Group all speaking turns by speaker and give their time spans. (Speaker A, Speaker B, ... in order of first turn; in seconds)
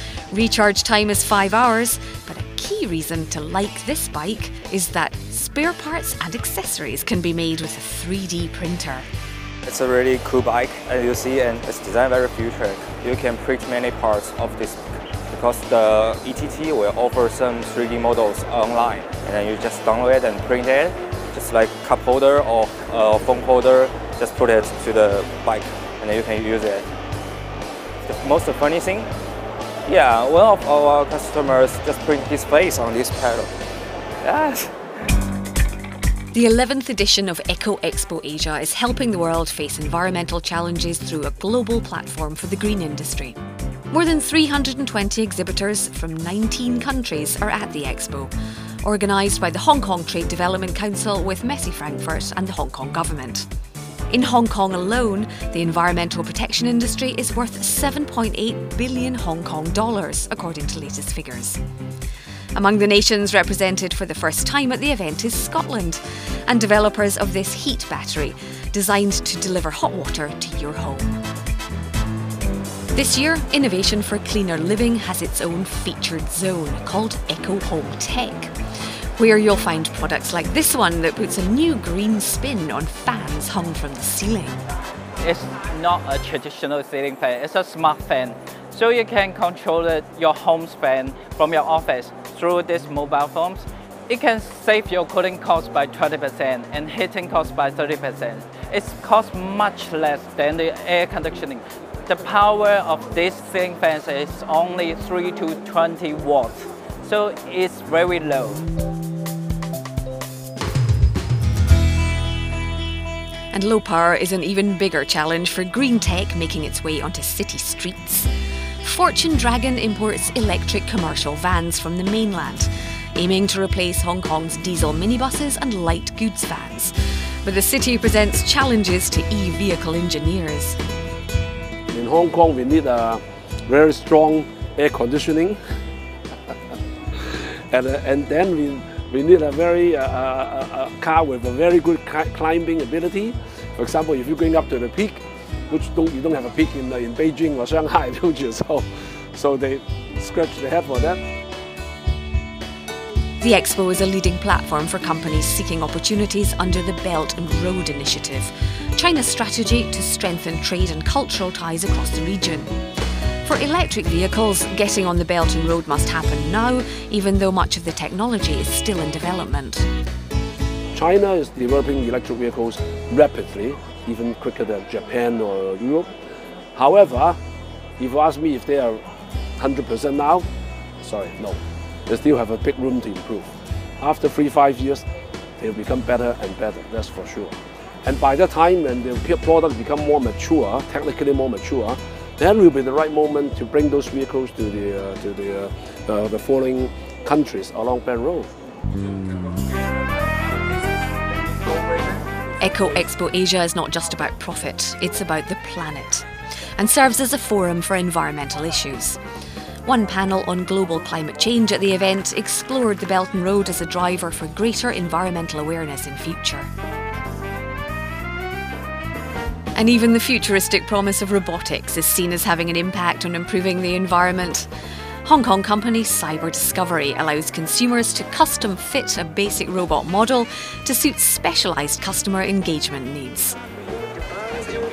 Speaker A: 0.3-9.1, 36.3-43.4, 43.9-48.3, 48.8-53.5, 54.1-61.6, 62.5-71.2, 72.9-78.5, 79.2-84.6, 113.5-118.3, 118.8-130.8, 153.4-162.7, 163.4-169.9, 202.6-206.2, 206.8-209.2, 209.8-216.7, 219.7-224.7, 225.2-233.6
Speaker B: 9.7-26.9, 28.0-29.1, 29.9-33.5, 34.2-34.7
Speaker C: 85.2-108.6
Speaker D: 131.9-135.6, 137.7-151.2, 170.9-176.1, 176.7-177.4, 178.0-179.0, 179.6-180.4, 181.0-185.0, 185.6-198.5